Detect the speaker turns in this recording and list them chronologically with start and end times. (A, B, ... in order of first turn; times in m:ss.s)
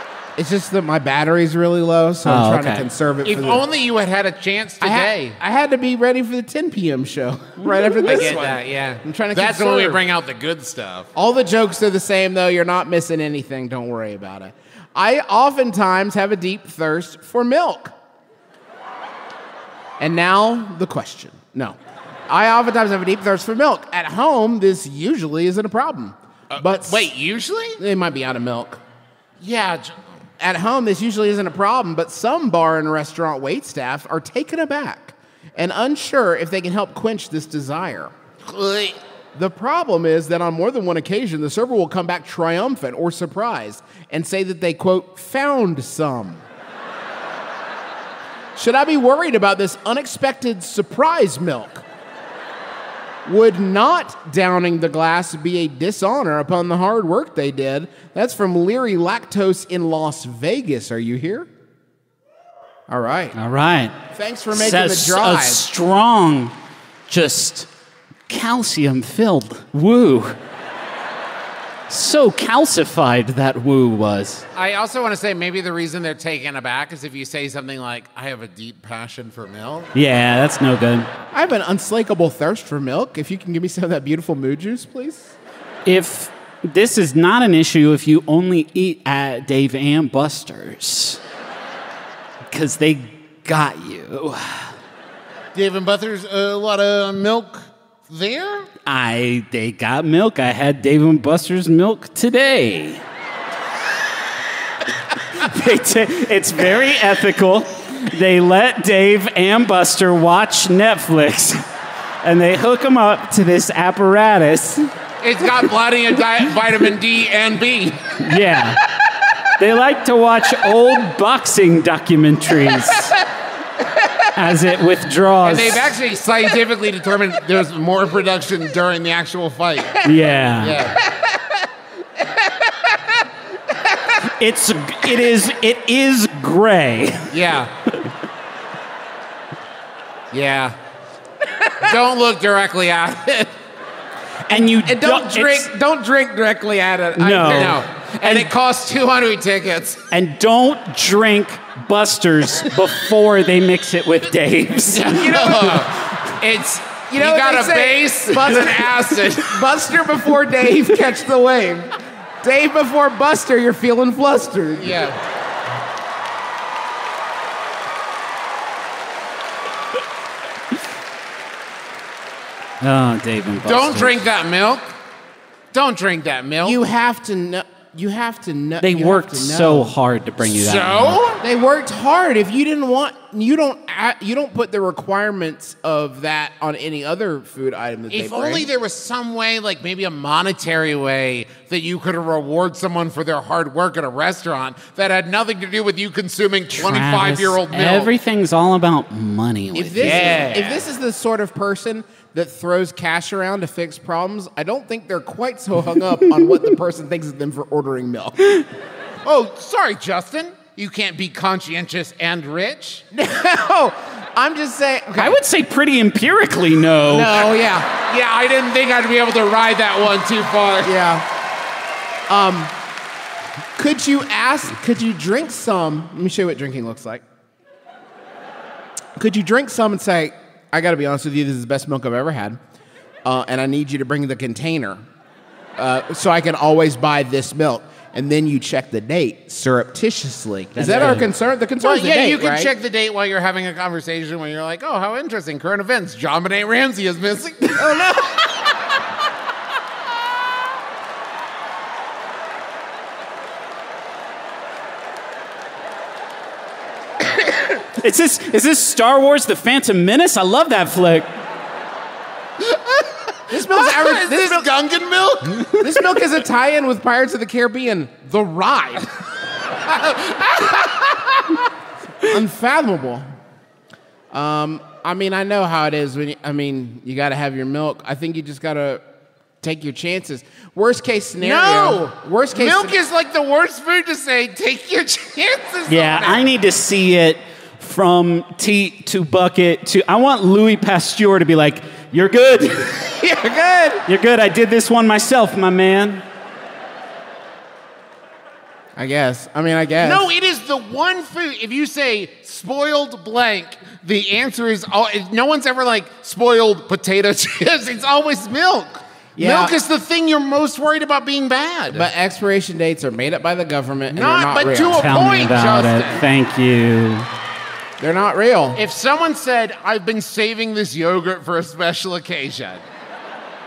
0:00.4-0:03.6 A
0:02.2-0:02.9 B
0:03.2-0:05.4 C
0:04.8-0:10.0 A
0:08.0-0:11.1 C
0:11.2-0:17.9 A
0:20.0-0:27.1 A
0:26.5-0:27.8 C
0:27.8-0:28.8 A
0:29.4-0:30.0 C
0:30.4-0:38.1 A
0:38.4-0:39.0 C
0:39.4-0:46.4 A
0:48.6-0:51.8 A
0:53.2-1:01.5 A
1:02.9-1:03.4 A
1:03.4-1:03.9 B
1:04.1-1:05.6 A
1:04.5-1:06.5 B
1:07.1-1:07.7 B
1:08.3-1:10.4 B
1:11.9-1:14.4 B
1:14.5-1:19.9 C
1:19.9-1:21.1 B
1:21.3-1:25.4 A
1:25.9-1:31.2 B
1:32.5-1:34.7 B
1:35.5-1:38.7 C
1:38.9-1:43.0 B
1:45.4-1:51.6 B
1:52.2-1:54.9 B
1:55.2-1:58.1 C
1:58.2-1:58.8 B
1:59.6-2:03.2 B
2:04.3-2:05.9 B
2:05.4-2:10.0 C
2:10.0-2:10.8 B
2:10.6-2:11.0 C
2:11.0-2:11.6 A
2:12.2-2:13.2 A
2:14.2-2:17.3 B
2:17.3-2:17.7 C
2:20.3-2:20.8 C
2:21.8-2:23.5 C
2:24.5-2:27.8 A
2:24.5-2:25.7 B
2:27.2-2:28.4 B
2:27.4-2:30.0 C
2:30.1-2:35.7 B
2:34.9-2:39.6 C
2:35.5-2:35.8 A
2:37.1-2:45.1 A
2:44.8-2:45.2 C
2:52.8-2:54.2 B
2:53.6-2:54.9 C
2:55.7-2:56.8 C
2:56.6-2:59.9 A
2:58.8-3:01.2 B
3:00.4-3:01.4 C
3:01.4-3:08.7 A
3:08.1-3:18.1 C
3:16.8-3:20.4 B
3:19.7-3:28.6 A
3:20.0-3:20.8 C
3:29.2-3:33.0 C
3:33.1-3:35.4 A
3:35.2-3:37.4 B
3:37.1-3:37.9 A
3:37.9-3:40.9 C
3:40.8-3:41.2 A
3:42.3-3:42.7 A
3:43.8-3:47.2 A
3:49.2-3:52.6 A
3:53.2-3:55.0 A
3:55.8-4:02.7 A
4:00.8-4:01.3 B
4:01.8-4:08.1 C
4:07.8-4:08.3 A
4:18.0-4:21.3 B
4:23.4-4:25.8 C
4:23.5-4:24.7 A
4:25.8-4:29.1 A
4:29.8-4:31.5 C
4:32.3-4:33.2 A
4:34.3-4:39.0 A
4:39.6-4:43.0 A
4:41.4-4:46.4 C
4:45.9-4:52.9 B
4:53.2-4:54.0 A
4:54.1-4:56.2 B
4:59.0-5:00.3 A
5:00.0-5:12.1 C
5:09.4-5:09.7 A
5:11.9-5:15.0 A
5:14.1-5:16.2 C
5:15.0-5:17.3 B
5:18.0-5:18.8 A
5:18.8-5:22.8 C